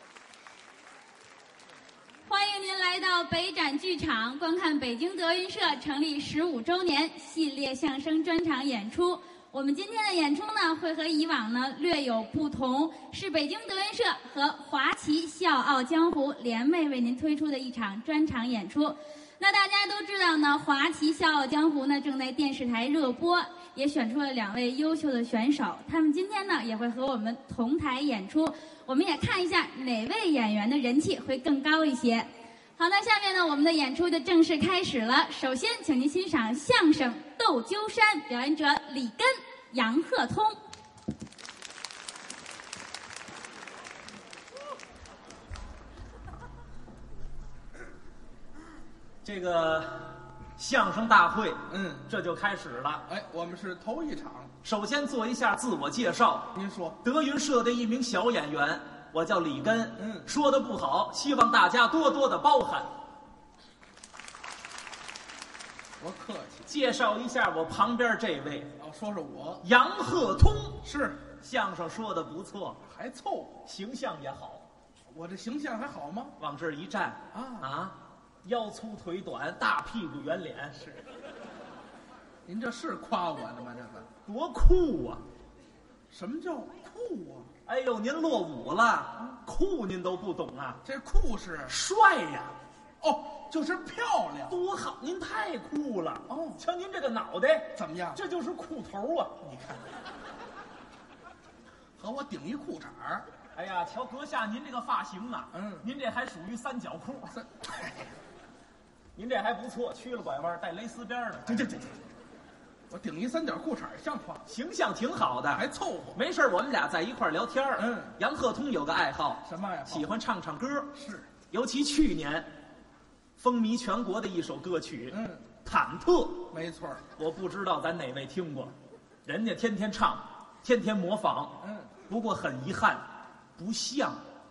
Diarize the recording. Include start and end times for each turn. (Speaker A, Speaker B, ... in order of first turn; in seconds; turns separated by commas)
Speaker A: 2.3-40.6, Speaker B: 49.2-53.1, Speaker C: 51.7-52.1, Speaker C: 53.1-54.5, Speaker B: 54.6-62.9, Speaker C: 56.5-57.0, Speaker C: 60.0-60.3, Speaker C: 66.0-66.7, Speaker B: 66.7-68.8, Speaker C: 68.8-69.6, Speaker B: 69.6-72.8, Speaker C: 70.8-71.3, Speaker C: 72.9-73.6, Speaker B: 73.6-74.7, Speaker C: 75.1-76.3, Speaker B: 76.4-80.9, Speaker C: 77.3-77.7, Speaker C: 82.5-84.1, Speaker B: 84.2-85.2, Speaker C: 86.1-87.5, Speaker B: 87.7-90.8, Speaker C: 90.8-91.8, Speaker B: 91.7-92.6, Speaker C: 93.0-94.6, Speaker B: 94.5-99.4, Speaker C: 96.3-96.6, Speaker C: 97.8-98.2, Speaker C: 99.5-100.0, Speaker C: 102.0-103.3, Speaker B: 103.5-107.4, Speaker C: 105.5-105.9, Speaker C: 107.3-108.1, Speaker B: 109.2-111.9, Speaker C: 111.5-112.0, Speaker C: 112.9-114.4, Speaker B: 114.4-122.5, Speaker C: 115.5-116.2, Speaker C: 117.8-118.2, Speaker C: 119.5-120.1, Speaker C: 121.0-121.4, Speaker B: 123.4-126.5, Speaker C: 125.1-125.5, Speaker C: 126.5-127.0, Speaker B: 127.1-128.7, Speaker B: 129.2-133.0, Speaker C: 131.6-132.0, Speaker B: 133.6-134.2